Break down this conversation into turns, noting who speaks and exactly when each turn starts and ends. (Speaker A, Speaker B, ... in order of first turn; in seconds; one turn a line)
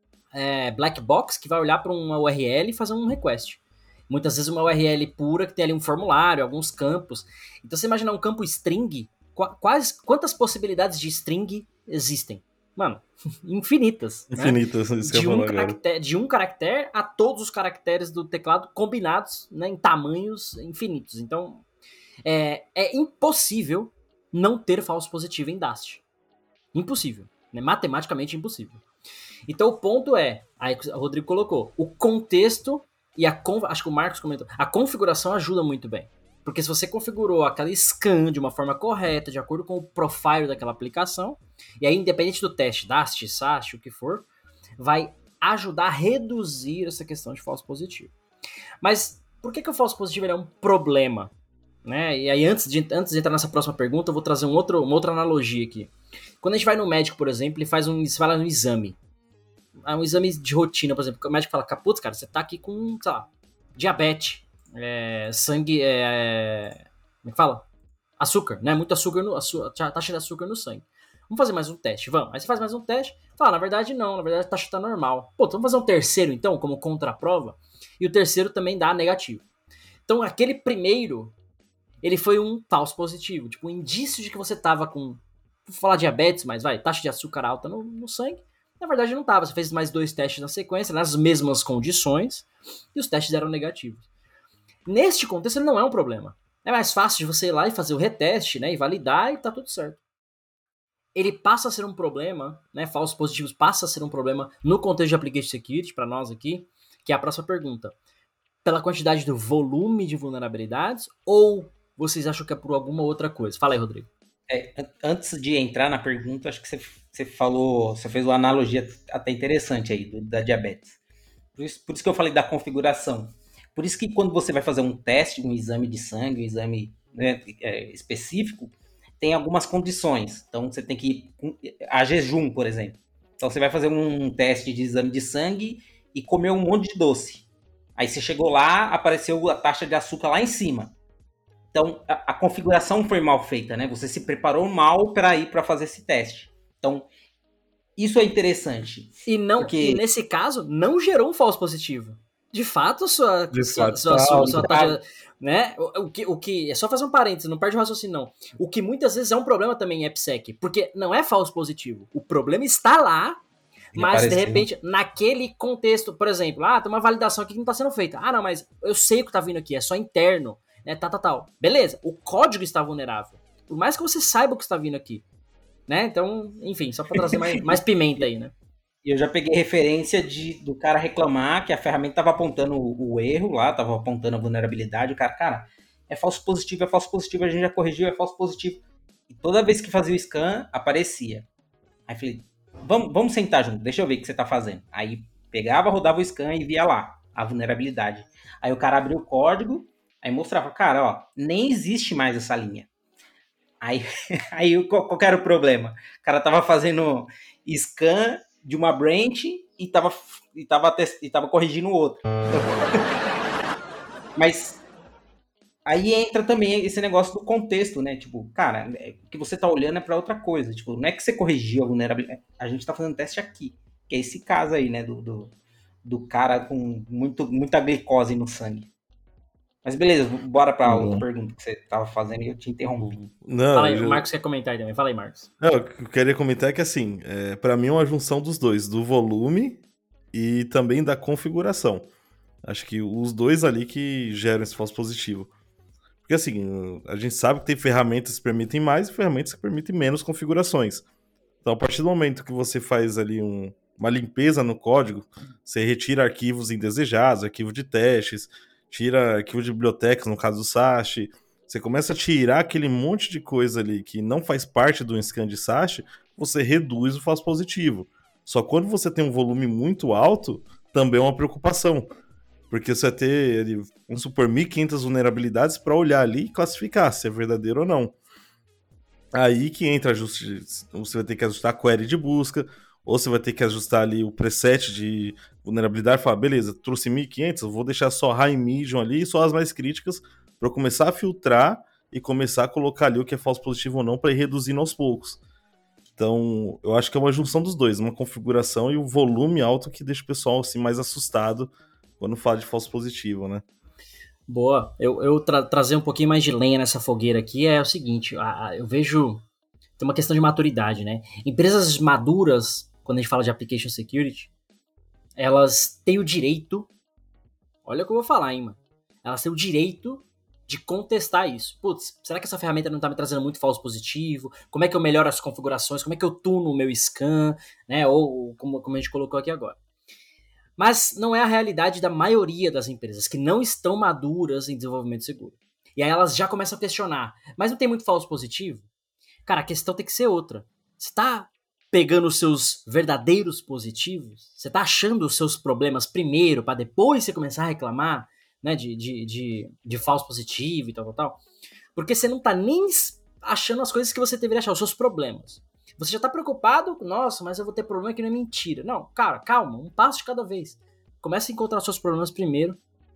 Speaker A: 0.3-21.6
Speaker B: 14.3-15.8
Speaker A: 22.2-26.0
Speaker A: 26.7-28.8
Speaker A: 29.5-44.2
Speaker A: 44.8-48.1
Speaker A: 48.8-51.3
Speaker A: 51.8-59.0
Speaker A: 59.8-67.7
Speaker A: 68.2-79.4
Speaker A: 80.1-81.3
Speaker A: 82.0-94.0
Speaker A: 94.9-100.0
Speaker A: 101.1-107.9
Speaker A: 108.6-114.1
Speaker C: 114.5-121.0
Speaker C: 121.5-140.9
Speaker C: 141.7-147.1
Speaker C: 148.0-150.0
Speaker A: 149.2-163.4
Speaker B: 153.5-154.6
Speaker C: 154.4-155.0
Speaker A: 163.9-175.2
Speaker C: 163.9-164.7
Speaker A: 175.9-178.5
Speaker C: 177.1-177.7
Speaker C: 179.0-191.5
Speaker C: 192.1-202.9
Speaker C: 203.8-213.1
Speaker C: 214.3-214.8
Speaker C: 215.8-225.5
Speaker C: 226.0-228.9
Speaker C: 229.8-233.2
Speaker B: 230.8-231.2
Speaker B: 233.4-234.2
Speaker A: 233.7-235.5
Speaker B: 235.6-239.8
Speaker B: 240.3-242.1
Speaker B: 242.6-245.5
Speaker B: 246.2-251.0
Speaker B: 251.6-272.1
Speaker B: 272.7-278.1
Speaker B: 279.3-295.4
Speaker B: 296.2-303.6
Speaker A: 304.5-309.4
Speaker A: 310.0-314.5
Speaker A: 315.4-316.9
Speaker A: 317.8-329.8
Speaker A: 330.8-338.9
Speaker A: 339.4-351.4
Speaker A: 351.9-362.8